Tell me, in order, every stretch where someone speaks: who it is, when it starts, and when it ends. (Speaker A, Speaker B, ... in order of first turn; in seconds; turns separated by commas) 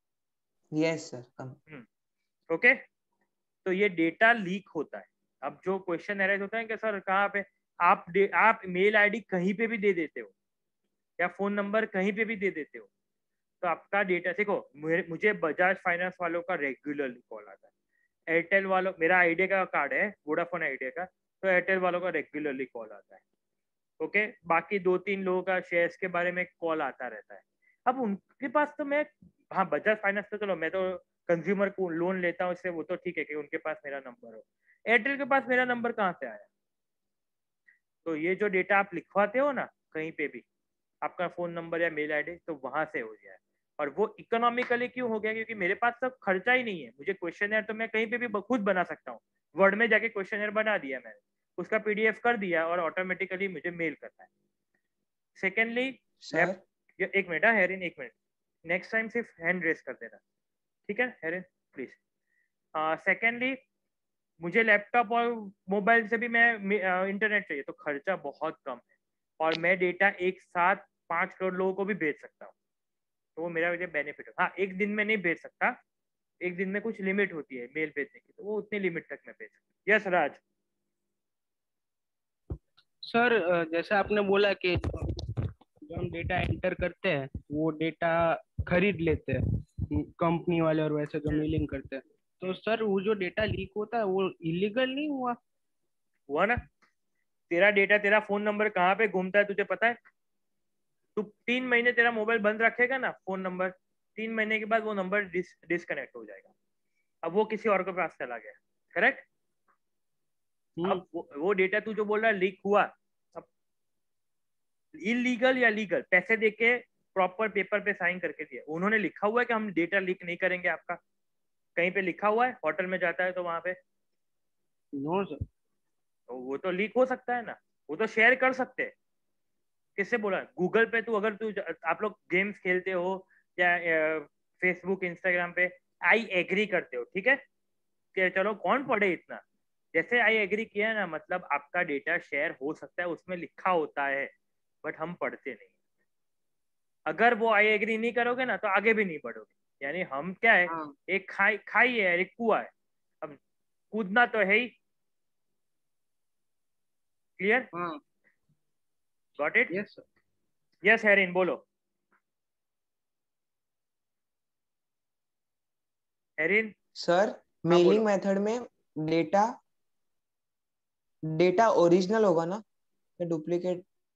Speaker A: 0.7-1.6, Speaker B: 2.5-2.8, Speaker B: 3.6-10.3, Speaker B: 11.2-12.9, Speaker B: 13.6-17.6, Speaker B: 18.3-23.2, Speaker B: 24.0-36.5, Speaker B: 38.0-40.4, Speaker B: 41.0-54.3, Speaker B: 55.4-58.1, Speaker A: 56.2-56.6, Speaker B: 58.7-60.2, Speaker B: 60.9-62.0, Speaker B: 62.7-63.6, Speaker B: 64.4-68.8, Speaker B: 69.4-72.5, Speaker B: 73.4-75.8, Speaker B: 76.4-80.4, Speaker C: 83.0-85.3, Speaker C: 85.8-95.4, Speaker B: 96.3-96.6, Speaker B: 97.5-100.0, Speaker B: 101.2-106.5, Speaker B: 107.2-109.2, Speaker B: 110.8-113.5, Speaker B: 115.0-121.0, Speaker B: 121.8-123.8, Speaker C: 125.0-125.4, Speaker B: 126.3-128.9, Speaker B: 129.9-137.4, Speaker B: 138.1-139.4, Speaker B: 139.9-144.3, Speaker B: 144.8-145.7, Speaker B: 147.1-152.7, Speaker B: 153.9-154.7, Speaker B: 157.4-157.7, Speaker C: 157.7-158.0, Speaker B: 159.4-159.7, Speaker C: 159.7-160.0, Speaker B: 160.8-161.6, Speaker B: 166.4-166.7, Speaker A: 166.9-169.6, Speaker B: 167.7-168.0, Speaker A: 171.3-172.6, Speaker A: 173.2-173.8